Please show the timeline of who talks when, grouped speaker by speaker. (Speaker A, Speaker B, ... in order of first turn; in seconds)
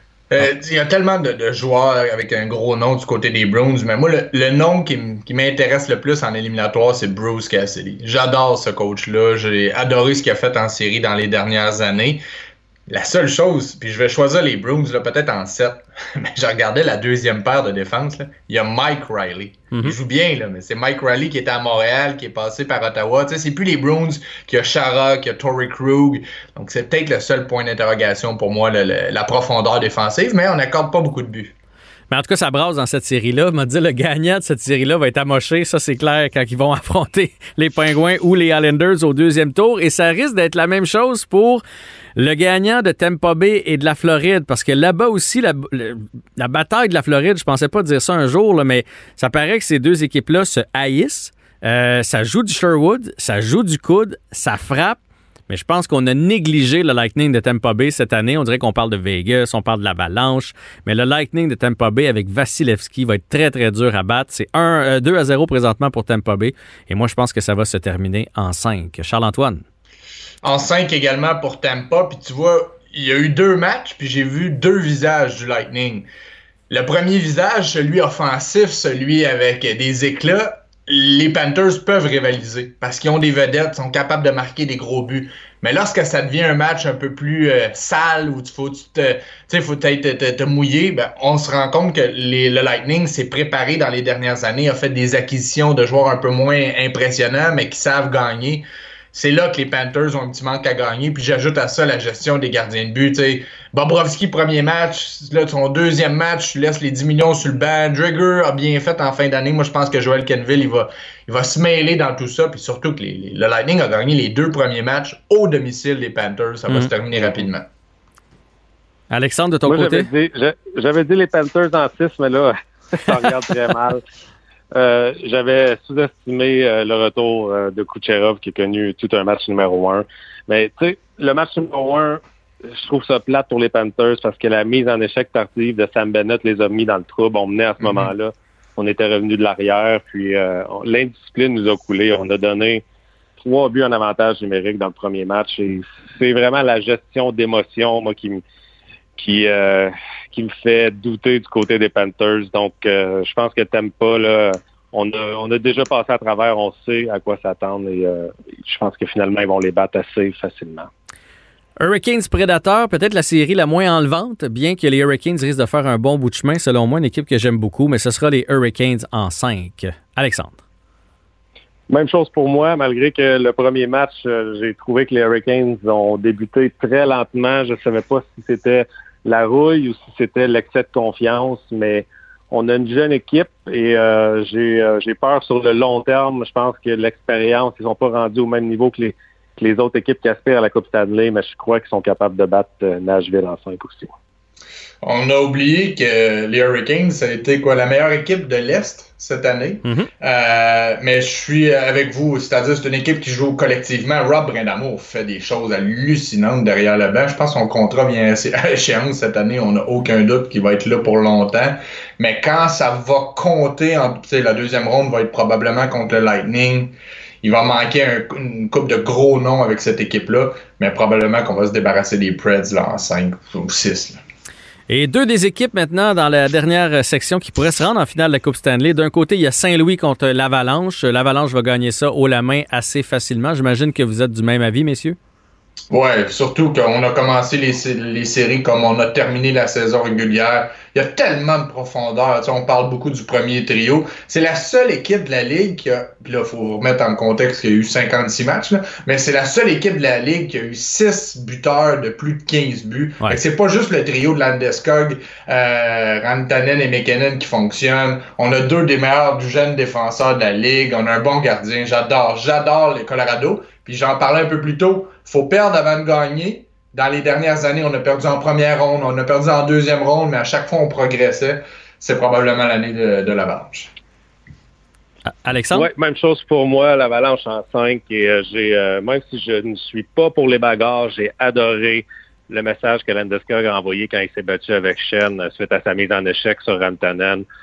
Speaker A: 0.3-12.2, 12.9-31.5, 70.4-76.1, 76.7-117.7, 137.8-138.1, 195.0-224.2, 235.9-273.9
Speaker B: 32.1-41.6, 42.1-69.6, 119.1-120.1, 161.8-170.6, 199.8-200.1, 224.9-235.2, 275.4-275.9
Speaker C: 119.7-124.0, 124.7-142.8, 143.4-148.4, 149.2-160.9, 171.9-194.1, 275.7-287.5